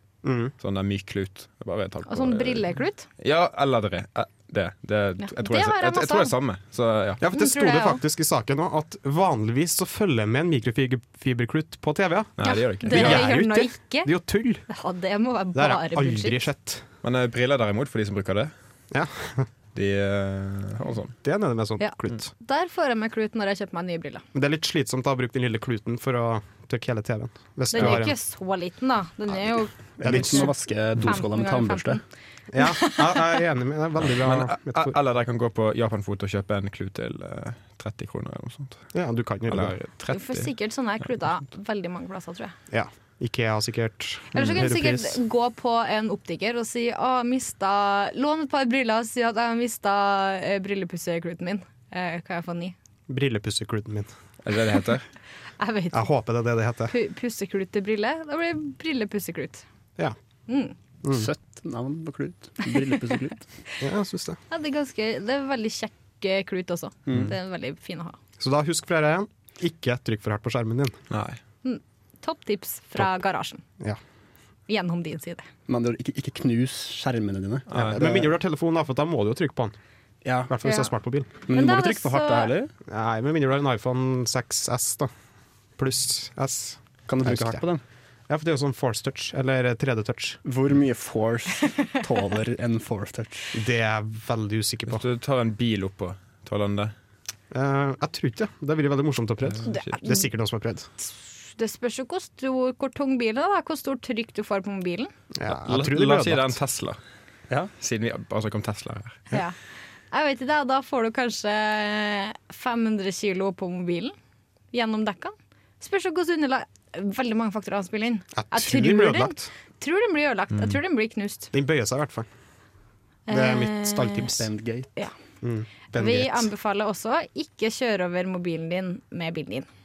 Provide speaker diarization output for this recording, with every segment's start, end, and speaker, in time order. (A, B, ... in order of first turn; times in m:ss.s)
0:00.2-0:00.5 A
0:00.6-0:07.2 B
0:02.1-0:03.1 C
0:05.2-0:06.3 C
0:07.2-0:14.6 A
0:07.3-0:08.0 C
0:12.4-0:13.2 B
0:12.4-0:14.1 C
0:14.7-0:16.4 C
0:15.5-0:16.8 A
0:17.0-0:18.5 B
0:18.9-0:19.5 A
0:19.7-0:21.1 B
0:21.2-0:22.3 A
0:21.8-0:24.2 C
0:24.3-0:28.1 A
0:27.7-0:32.0 C
0:30.0-0:32.0 D
0:30.0-0:30.5 A
0:32.5-0:35.0 A
0:32.6-0:33.4 C
0:34.0-0:38.9 B
0:38.9-0:39.8 A
0:39.5-0:40.5 B
0:40.1-0:42.5 C
0:42.7-0:45.1 A
0:44.3-0:52.7 C
0:53.1-0:54.1 A
0:54.4-0:55.0 B
0:55.6-0:56.1 C
0:55.9-0:56.9 A
0:56.9-0:59.6 C
1:00.5-1:00.7 C
1:01.1-1:03.4 D
1:03.8-1:04.4 A
1:04.5-1:08.2 C
1:07.1-1:07.3 D
1:08.4-1:11.0 A
1:11.1-1:11.4 B
1:11.6-1:13.6 C
1:14.7-1:15.5 C
1:15.7-1:18.2 D
1:17.7-1:18.0 B
1:17.7-1:19.8 A
1:20.2-1:20.5 D
1:20.5-1:21.3 A
1:20.6-1:20.9 C
1:21.4-1:22.7 D
1:21.5-1:22.5 C
1:22.9-1:25.1 A
1:25.8-1:27.6 A
1:27.1-1:27.8 D
1:28.3-1:30.4 A
1:30.4-1:33.5 D
1:33.5-1:35.0 A
1:34.9-1:36.9 B
1:37.5-1:40.9 A
1:39.4-1:40.0 B
1:39.7-1:40.3 C
1:41.0-1:45.1 C
1:45.3-1:46.6 A
1:45.5-1:47.0 B
1:47.8-1:49.2 B
1:50.1-1:54.1 C
1:54.7-2:01.5 C
1:58.4-1:59.5 A
2:01.5-2:02.3 A
2:03.3-2:04.3 C
2:03.3-2:04.5 A
2:04.3-2:04.9 D
2:05.4-2:06.5 A
2:05.9-2:09.7 C